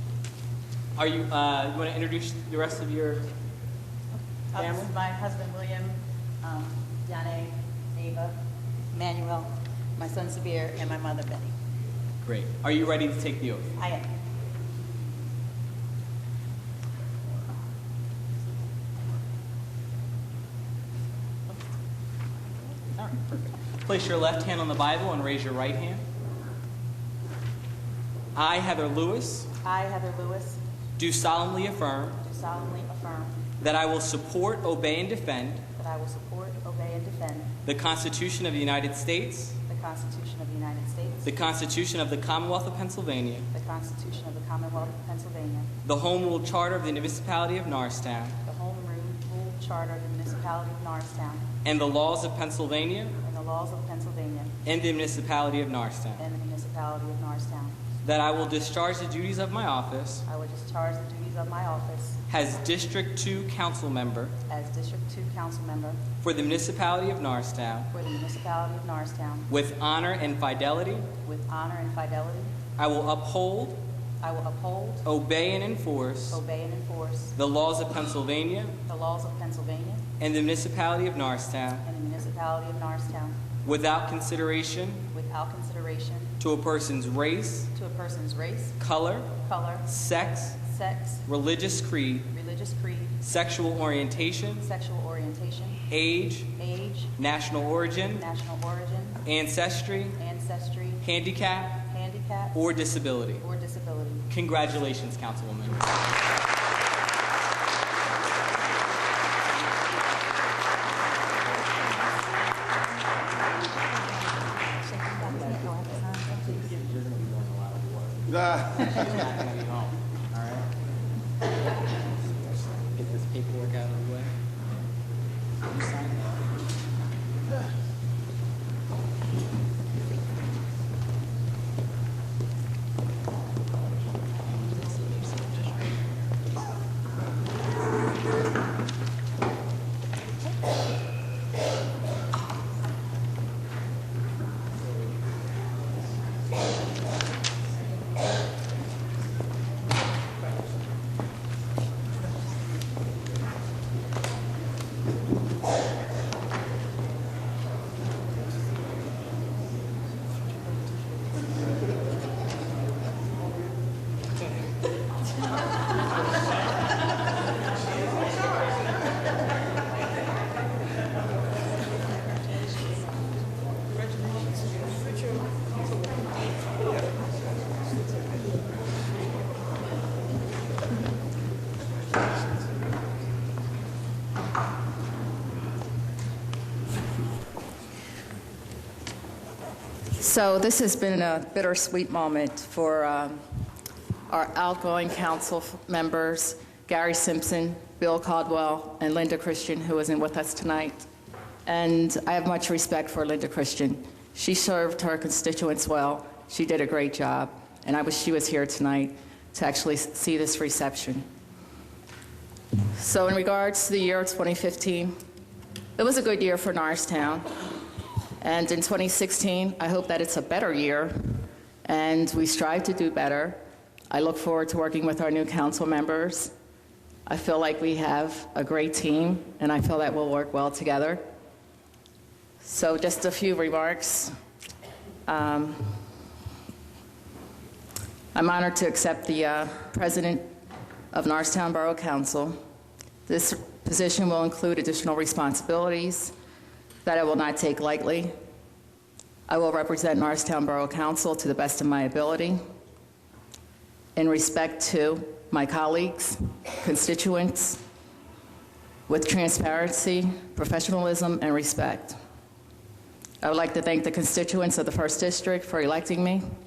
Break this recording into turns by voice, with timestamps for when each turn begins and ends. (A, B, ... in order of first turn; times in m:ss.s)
0:01.0-0:03.3 A
0:04.5-0:08.3 B
0:04.6-0:04.9 A
0:08.9-0:11.5 B
0:12.2-0:13.7 A
0:13.8-0:14.1 B
0:23.0-0:26.0 A
0:28.3-0:29.5 A
0:29.6-0:30.6 B
0:31.0-0:32.2 A
0:32.2-0:33.4 B
0:33.6-0:35.6 A
0:35.8-0:37.5 B
0:37.6-0:39.6 A
0:39.7-0:41.3 B
0:41.2-0:43.5 A
0:43.5-0:45.7 B
0:45.8-0:48.4 A
0:48.4-0:51.4 B
0:51.6-0:53.1 A
0:53.2-0:54.5 B
0:54.6-0:56.2 A
0:56.2-0:57.8 B
0:58.0-1:00.2 A
1:00.3-1:02.2 B
1:02.3-1:04.3 A
1:04.5-1:06.0 B
1:06.2-1:07.9 A
1:07.9-1:09.5 B
1:09.5-1:11.1 A
1:11.2-1:12.5 B
1:12.8-1:13.8 A
1:14.2-1:15.0 B
1:15.0-1:16.4 A
1:16.3-1:17.3 B
1:17.4-1:18.8 A
1:18.9-1:20.0 B
1:20.2-1:21.8 A
1:21.8-1:23.4 B
1:23.6-1:25.0 A
1:25.1-1:26.3 B
1:26.4-1:27.7 A
1:27.7-1:28.8 B
1:28.8-1:29.3 A
1:29.4-1:29.9 B
1:29.9-1:30.6 A
1:30.6-1:31.2 B
1:31.2-1:32.3 A
1:32.3-1:33.2 B
1:33.2-1:34.6 A
1:34.6-1:35.8 B
1:35.9-1:36.5 A
1:36.6-1:37.1 B
1:37.2-1:38.2 A
1:38.2-1:39.2 B
1:39.2-1:40.2 A
1:40.2-1:41.0 B
1:41.0-1:41.8 A
1:41.8-1:42.6 B
1:42.5-1:43.4 A
1:43.4-1:44.3 B
1:44.3-1:45.9 A
1:54.9-1:56.6 B
1:56.4-2:00.7 A
2:02.8-2:04.3 A
2:05.6-2:06.4 A
2:14.8-2:15.5 A
3:10.2-3:13.6 C
3:14.3-3:21.0 C
3:21.6-3:31.2 C
3:32.9-3:35.1 C
3:36.0-3:37.4 C
3:38.4-3:43.6 C
3:44.1-3:46.5 C
3:47.2-3:51.2 C
3:52.6-3:54.3 C
3:55.2-3:56.0 C
3:58.3-4:00.5 C
4:01.1-4:02.6 C
4:03.2-4:06.3 C
4:07.0-4:08.3 C
4:09.5-4:12.6 C
4:14.2-4:17.8 C
4:19.1-4:22.2 C
4:23.4-4:26.4 C